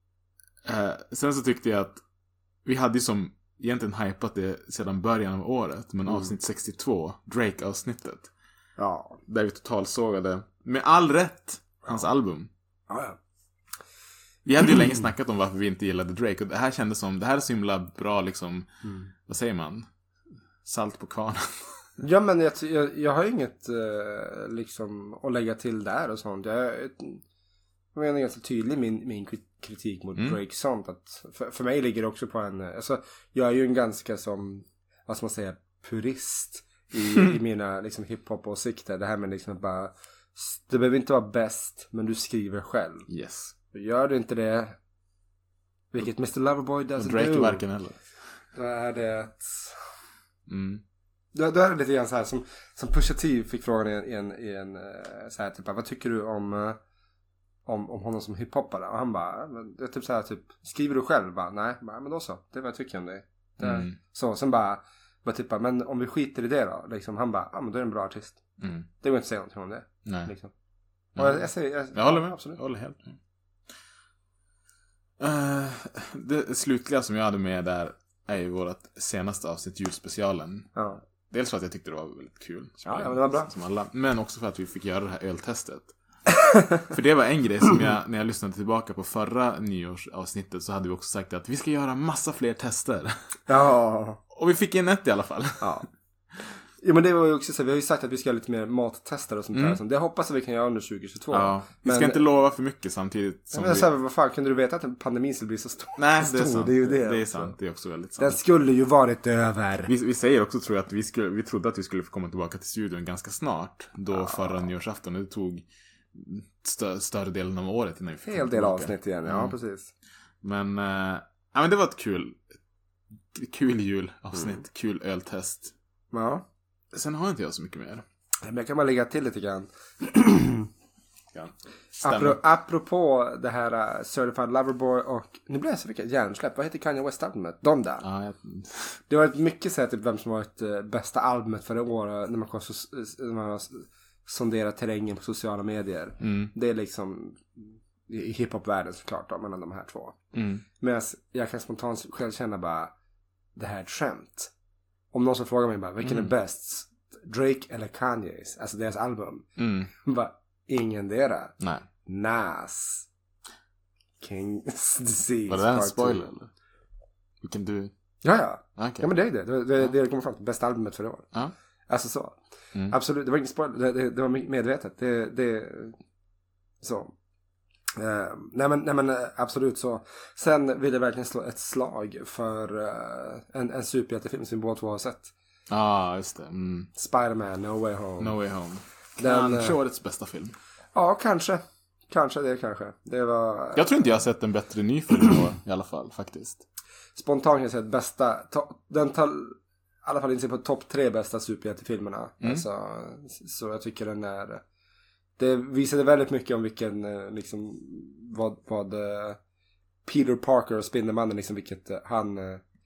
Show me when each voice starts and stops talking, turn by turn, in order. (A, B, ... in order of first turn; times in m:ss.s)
0:00.6-0:02.0 A
0:02.6-0:08.3 A
0:08.8-0:09.2 B
0:09.3-0:12.5 A
0:12.9-0:13.2 B
0:14.4-0:18.7 A
0:18.8-0:19.1 B
0:19.2-0:19.9 A
0:20.6-0:21.8 A
0:22.0-0:27.2 B
0:28.0-0:43.1 B
0:43.1-0:43.6 A
0:43.7-0:44.8 B
0:45.9-0:47.6 B
0:47.0-0:48.0 A
0:48.6-0:49.8 B
0:50.5-0:50.8 A
0:51.3-0:56.8 B
0:57.7-1:08.4 B
1:03.6-1:04.0 A
1:08.6-1:08.9 A
1:09.0-1:10.5 B
1:10.0-1:10.3 A
1:11.2-1:13.2 A
1:11.2-1:12.6 B
1:15.2-1:20.8 A
1:20.8-1:21.0 B
1:21.3-1:25.9 A
1:22.8-1:23.5 B
1:26.5-1:26.8 B
1:26.9-1:33.2 A
1:33.5-1:34.2 B
1:34.3-1:35.8 A
1:35.6-1:35.9 B
1:36.8-1:42.2 B
1:39.5-1:39.8 A
1:41.3-1:43.9 A
1:43.5-1:47.6 B
1:46.0-1:48.4 A
1:48.2-1:49.9 B
1:49.9-1:59.6 A
1:54.1-1:54.5 B
1:58.2-1:59.9 B
2:00.4-2:02.4 A
2:03.3-2:05.7 A
2:06.1-2:06.4 B
2:06.9-2:08.0 A
2:08.4-2:10.7 B
2:11.3-2:12.4 A
2:12.0-2:18.0 B
2:18.0-2:19.0 A
2:19.1-2:30.2 B
2:26.2-2:26.5 A
2:30.3-2:30.6 A
2:30.8-2:32.9 B
2:33.6-2:34.5 B
2:35.1-2:39.5 B
2:36.0-2:36.3 A
2:39.6-2:39.9 A
2:40.0-2:43.1 B
2:41.6-2:41.9 A
2:44.2-2:46.3 B
2:45.5-2:46.5 A
2:47.4-2:47.9 A
2:48.2-2:51.3 B
2:48.8-2:49.1 A
2:51.9-2:52.4 B
2:52.9-2:56.0 B
2:56.8-2:57.1 B
2:58.0-3:05.3 B
3:05.7-3:06.9 A
3:07.0-3:08.4 B
3:08.2-3:10.6 A
3:09.2-3:09.8 B
3:11.0-3:14.1 B
3:13.8-3:16.6 A
3:17.2-3:24.6 B
3:25.4-3:29.4 B
3:30.0-3:32.6 B